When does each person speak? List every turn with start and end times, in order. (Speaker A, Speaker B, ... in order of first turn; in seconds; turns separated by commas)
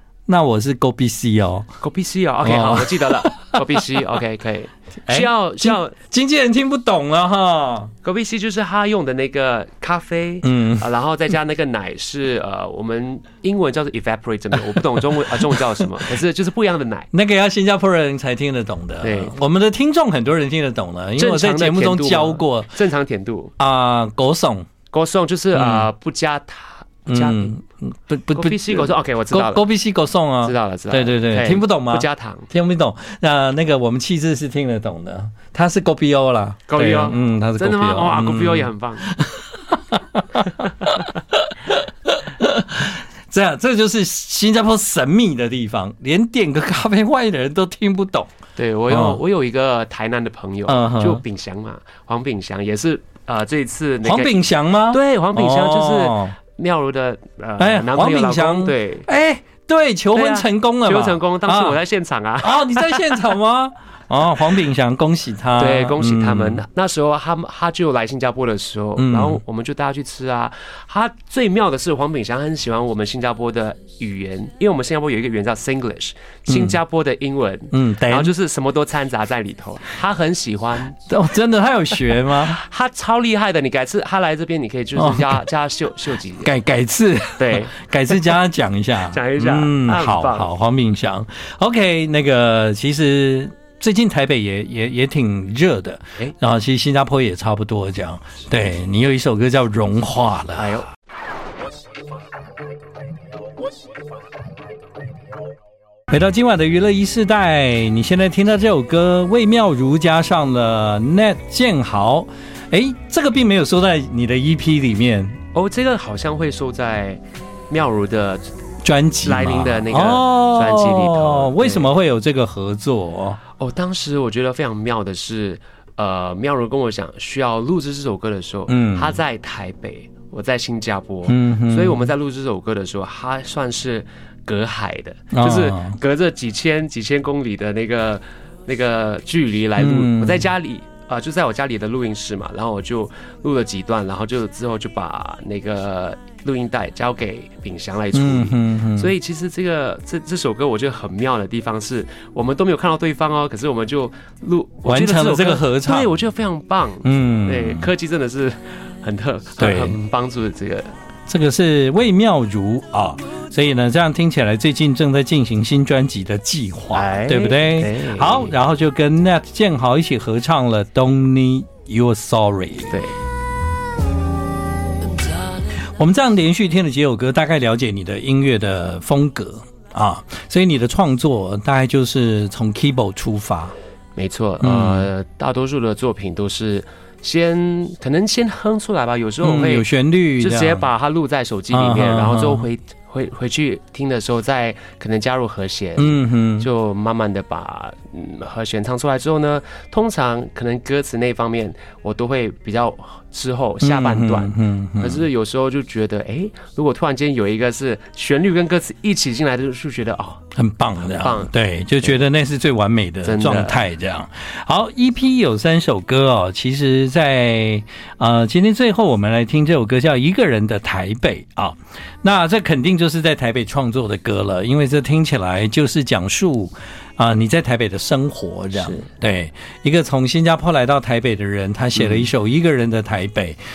Speaker A: 0.3-1.7, Speaker B: 1.8-6.0, Speaker A: 2.4-3.6, Speaker A: 5.1-7.9, Speaker B: 8.0-17.1, Speaker A: 10.4-10.9, Speaker A: 15.3-15.6, Speaker A: 17.1-22.8, Speaker B: 19.0-19.4, Speaker B: 21.2-23.6, Speaker A: 23.6-24.7, Speaker B: 24.9-27.6, Speaker A: 25.6-25.9, Speaker A: 27.1-48.3, Speaker B: 28.3-29.7, Speaker B: 30.4-32.5, Speaker B: 36.7-39.1, Speaker B: 48.6-59.1, Speaker A: 48.9-49.2, Speaker A: 50.7-51.2, Speaker A: 54.0-56.4, Speaker A: 57.6-61.8, Speaker B: 60.1-63.2, Speaker A: 62.4-66.6, Speaker B: 65.6-81.0, Speaker A: 69.0-69.4, Speaker A: 76.5-76.8, Speaker A: 77.7-78.3, Speaker A: 81.1-82.6, Speaker B: 82.3-86.5, Speaker A: 85.0-85.4, Speaker A: 86.4-100.8, Speaker B: 87.4-87.8, Speaker B: 89.1-90.5, Speaker B: 100.5-100.9, Speaker A: 106.1-115.4, Speaker B: 115.5-118.4, Speaker A: 118.8-123.4, Speaker B: 119.2-121.9, Speaker B: 123.6-160.9, Speaker A: 128.7-129.2, Speaker A: 131.3-132.1, Speaker A: 135.3-136.0, Speaker A: 139.8-140.5, Speaker A: 148.1-149.1, Speaker A: 154.9-156.1, Speaker A: 157.0-157.9, Speaker A: 159.6-160.0, Speaker A: 161.3-173.0, Speaker B: 166.9-168.6, Speaker B: 172.9-173.2, Speaker A: 175.8-183.7, Speaker B: 184.2-189.9, Speaker A: 184.6-185.1, Speaker A: 189.4-190.9, Speaker B: 190.4-210.4, Speaker A: 191.7-192.7, Speaker A: 196.0-196.7, Speaker A: 203.8-205.2, Speaker A: 210.6-233.6, Speaker B: 211.0-211.5, Speaker B: 213.2-213.8, Speaker B: 228.8-229.1, Speaker B: 231.9-232.3